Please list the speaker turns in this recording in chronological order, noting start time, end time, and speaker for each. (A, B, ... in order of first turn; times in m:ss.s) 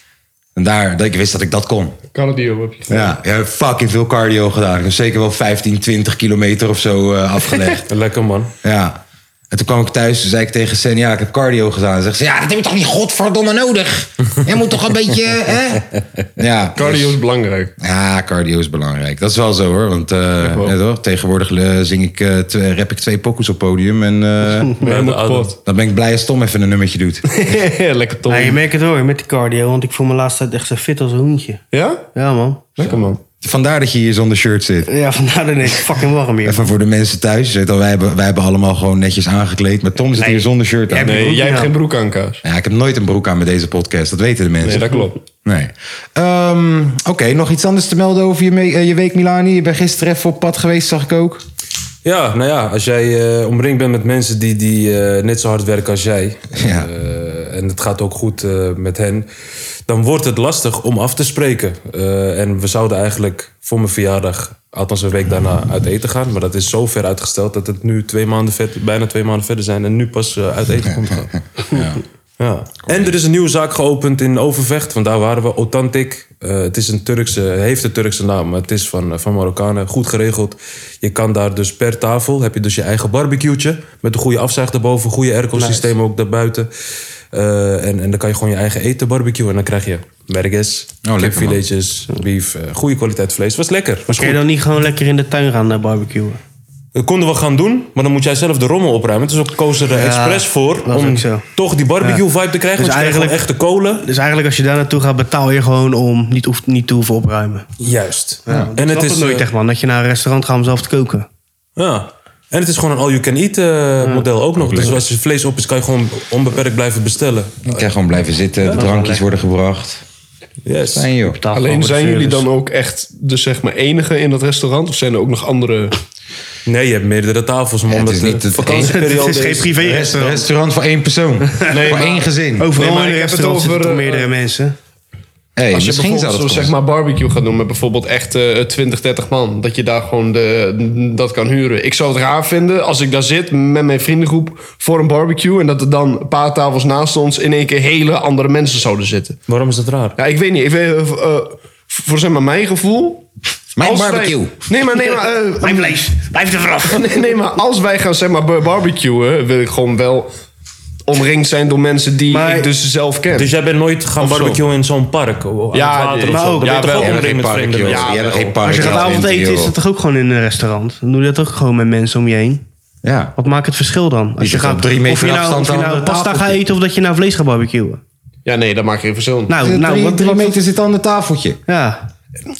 0:00.6-0:02.0 A
0:02.1-0:03.1 B
0:02.9-0:07.9 A
0:07.9-0:08.5 C
0:08.6-0:17.2 A
0:16.7-0:17.7 B
0:17.8-0:24.8 A
0:20.4-0:20.7 B
0:24.8-0:25.5 C
0:24.8-0:25.6 B
0:25.6-0:27.2 A
0:27.3-0:28.6 B
0:28.3-0:31.6 D
0:31.7-0:32.0 B
0:32.1-0:32.7 D
0:32.8-0:33.2 B
0:32.8-0:34.9 A
0:34.8-0:36.7 D
0:36.4-0:41.3 A
0:40.1-0:41.7 D
0:41.0-0:42.4 B
0:42.4-0:51.4 A
0:44.6-0:45.2 B
0:52.0-0:59.3 C
0:56.6-0:56.9 A
0:59.9-1:11.4 C
1:11.7-1:12.0 A
1:12.4-1:26.7 C
1:12.8-1:13.1 A
1:25.6-1:25.9 D
1:27.3-1:34.3 C
1:31.0-1:31.6 A
1:34.1-1:36.4 D
1:36.9-1:44.0 C
1:39.9-1:41.4 D
1:42.8-1:47.6 D
1:47.8-1:49.5 C
1:48.4-1:51.3 D
1:51.8-1:57.9 C
1:54.6-1:55.0 A
1:57.6-2:00.0 A
1:58.8-1:59.3 D
2:00.6-2:01.1 C
2:00.9-2:01.4 A
2:01.2-2:02.4 D
2:01.5-2:06.0 B
2:06.6-2:09.7 C
2:07.9-2:09.1 A
2:08.7-2:10.5 D
2:09.7-2:12.7 A
2:11.7-2:14.3 B
2:12.6-2:14.7 D
2:15.6-2:16.7 A
2:15.7-2:29.4 B
2:29.5-2:30.2 C
2:30.2-2:33.2 B
2:33.7-2:34.6 A
2:33.8-2:36.0 B
2:35.6-2:37.1 D
2:36.9-2:40.3 B
2:41.0-2:43.5 B
2:42.3-2:42.7 D
2:43.3-2:48.2 C
2:44.3-2:44.6 B
2:45.7-2:49.0 B
2:46.3-2:46.9 D
2:46.9-2:49.7 A
2:48.6-2:52.6 D
2:53.0-2:53.3 A
2:53.4-2:58.0 D
2:54.4-2:56.6 A
2:58.4-2:59.6 B
2:59.5-3:00.6 D
2:59.6-3:01.6 A
3:01.7-3:02.0 D